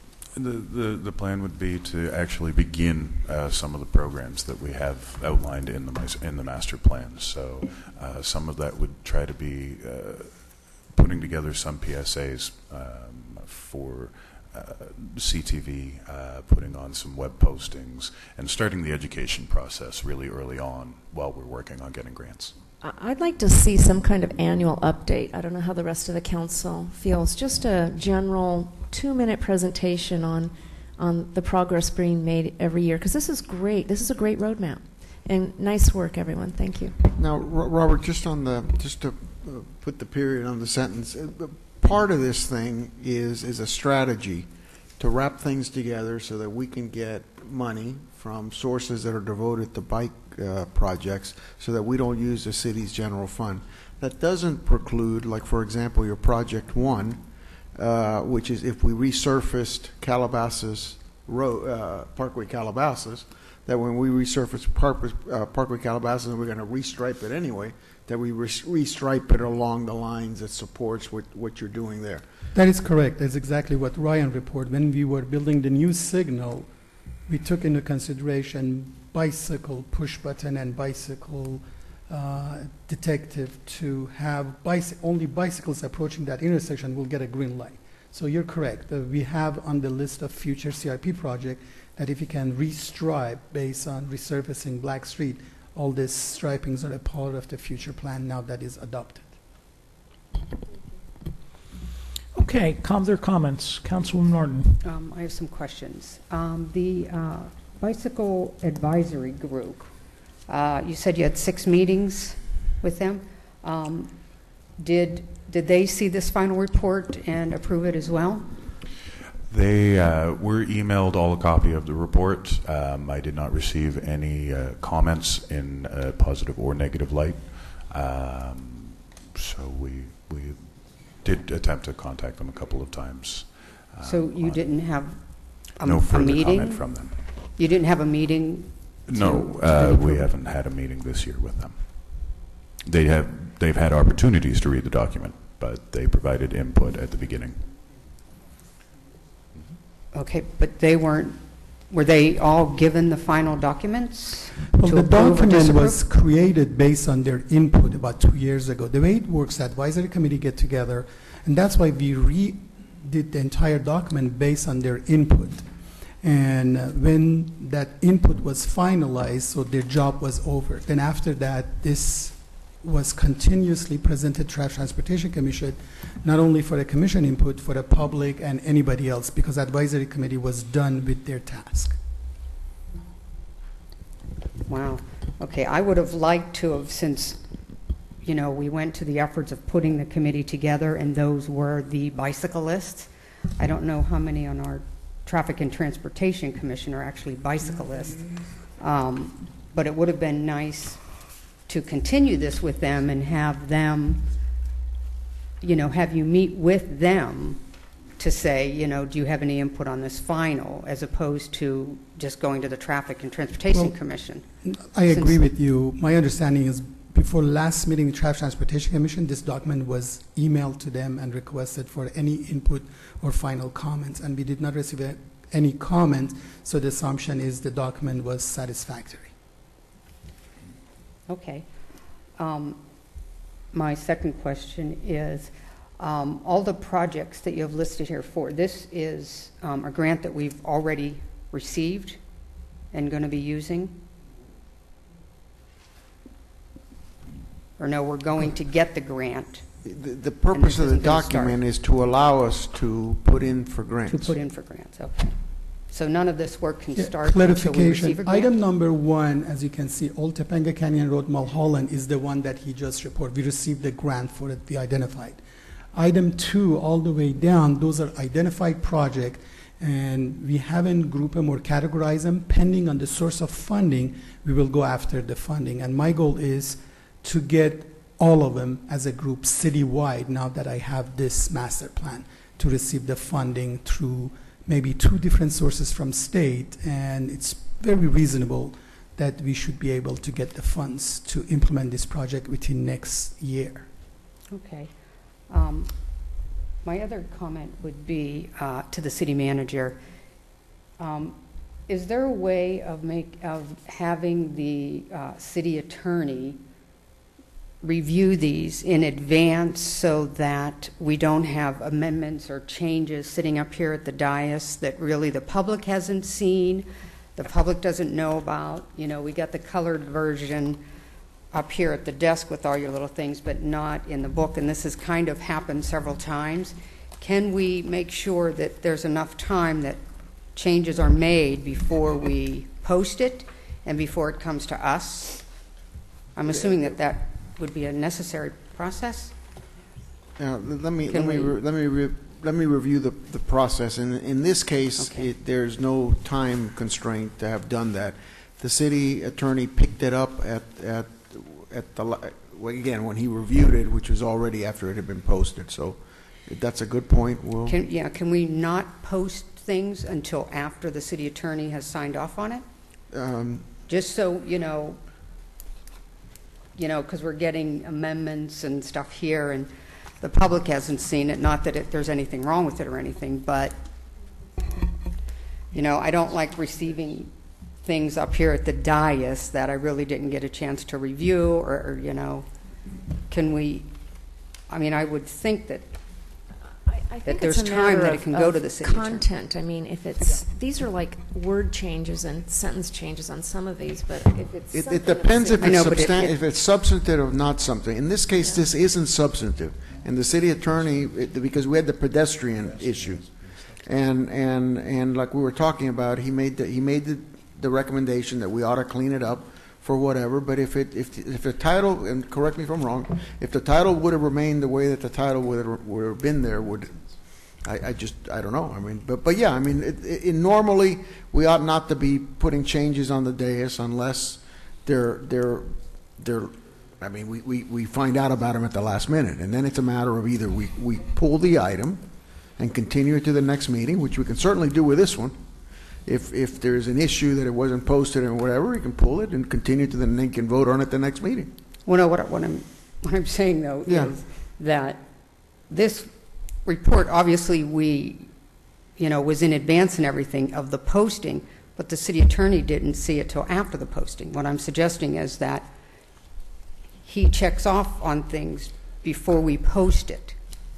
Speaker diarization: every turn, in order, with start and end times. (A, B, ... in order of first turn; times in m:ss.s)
0:00.3-0:22.6 A
0:22.8-0:37.0 B
0:37.2-0:57.2 C
0:57.8-1:12.2 C
1:12.5-1:16.7 D
1:17.3-1:39.3 D
1:42.4-1:44.8 E
1:44.8-1:49.9 F
1:50.5-1:58.5 F
1:59.5-2:14.7 A
2:14.0-2:17.0 F
2:15.8-2:17.2 A
2:17.6-2:20.3 F
2:19.1-2:27.6 A
2:30.1-2:36.1 F
2:34.7-3:02.0 D
3:04.7-3:07.4 F
3:08.2-3:24.3 F
3:25.6-3:34.5 F
3:34.6-3:49.3 D
3:35.1-3:35.4 F
3:51.3-3:51.7 F
3:52.4-3:52.8 F
3:53.7-4:02.2 F
4:02.9-4:04.0 F
4:07.8-4:09.7 F
4:09.8-4:14.4 C
4:10.5-4:11.6 F
4:14.1-4:18.5 F
4:16.9-4:25.4 D
4:25.9-4:53.9 D
4:54.5-4:56.0 F
4:56.8-5:00.0 F
5:01.0-5:06.6 F
5:07.8-5:20.8 F
5:21.5-5:30.0 F
5:30.5-5:35.5 F
5:36.4-5:39.4 F
5:36.4-5:37.0 C
5:40.4-5:57.8 C
5:41.1-5:41.5 F
5:45.0-5:45.3 F
5:57.7-6:02.6 F
6:03.1-6:03.8 C
6:03.9-6:05.0 F
6:06.8-6:13.8 F
6:15.7-6:17.3 F
6:17.8-6:22.5 F
6:23.3-6:23.9 F
6:24.7-6:25.9 F
6:26.8-6:36.4 B
6:27.2-6:29.3 F
6:34.7-7:15.5 C
6:35.6-6:36.4 F
7:16.0-7:21.5 C
7:21.9-7:25.1 F
7:23.9-7:24.2 C
7:25.6-7:28.3 F
7:29.0-7:35.7 F
7:37.0-7:40.4 F